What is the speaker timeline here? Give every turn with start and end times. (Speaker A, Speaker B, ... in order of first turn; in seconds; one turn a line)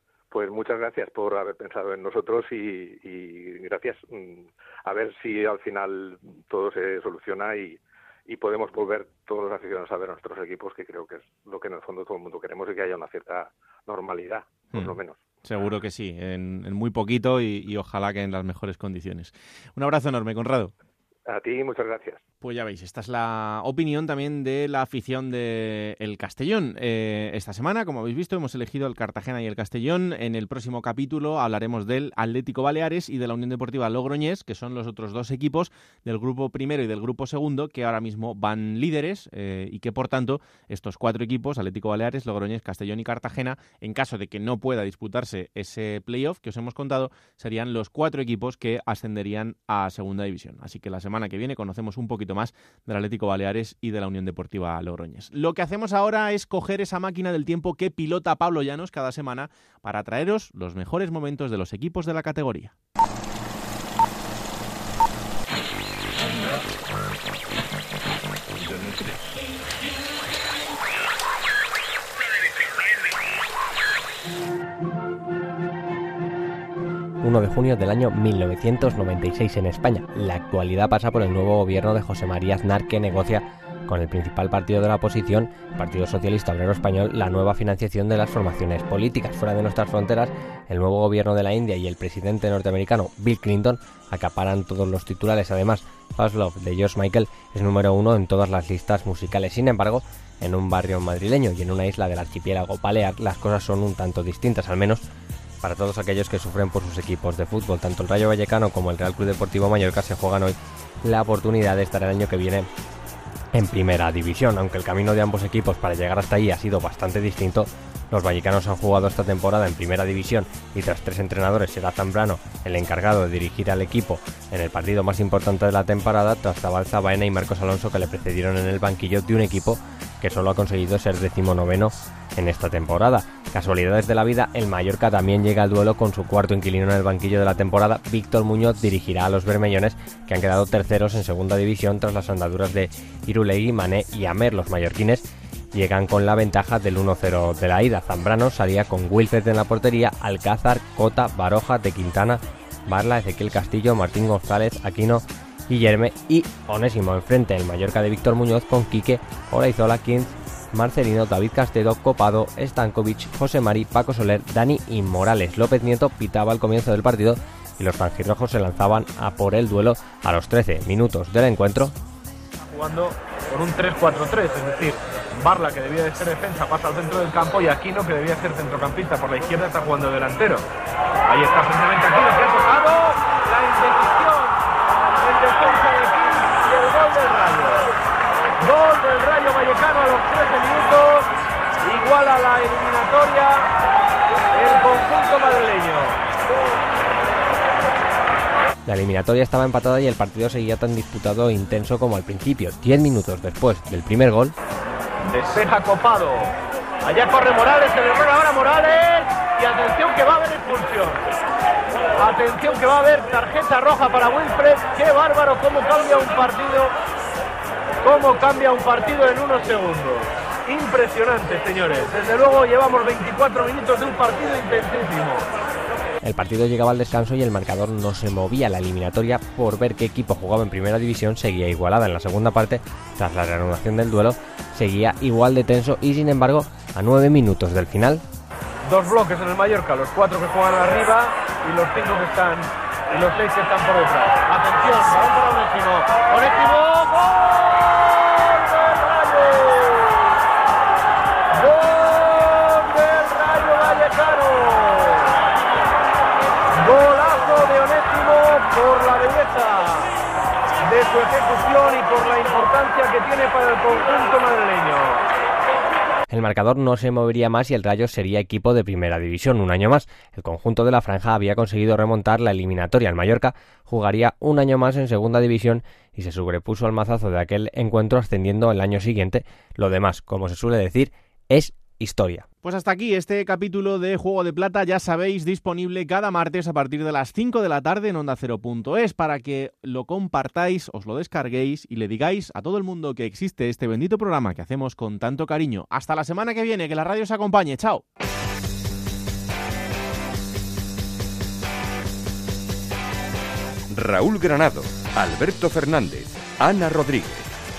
Speaker A: 0.3-15.2
Speaker B: 15.4-20.7
Speaker A: 21.3-22.2
Speaker B: 22.4-62.7
Speaker C: 77.2-105.0
Speaker C: 105.6-112.7
Speaker C: 113.5-171.9
Speaker D: 172.7-180.7
Speaker D: 181.2-187.9
Speaker D: 188.6-191.3
Speaker D: 191.8-193.7
Speaker D: 194.5-196.2
Speaker C: 198.9-204.5
Speaker D: 205.2-206.5
Speaker D: 207.0-211.3
Speaker D: 212.2-216.9
Speaker D: 218.0-225.5
Speaker C: 226.2-238.2
Speaker D: 238.8-250.3
Speaker D: 251.5-255.3
Speaker D: 256.7-260.1
Speaker D: 260.8-265.3
Speaker C: 266.3-282.5
Speaker B: 282.6-298.0
Speaker E: 303.9-307.5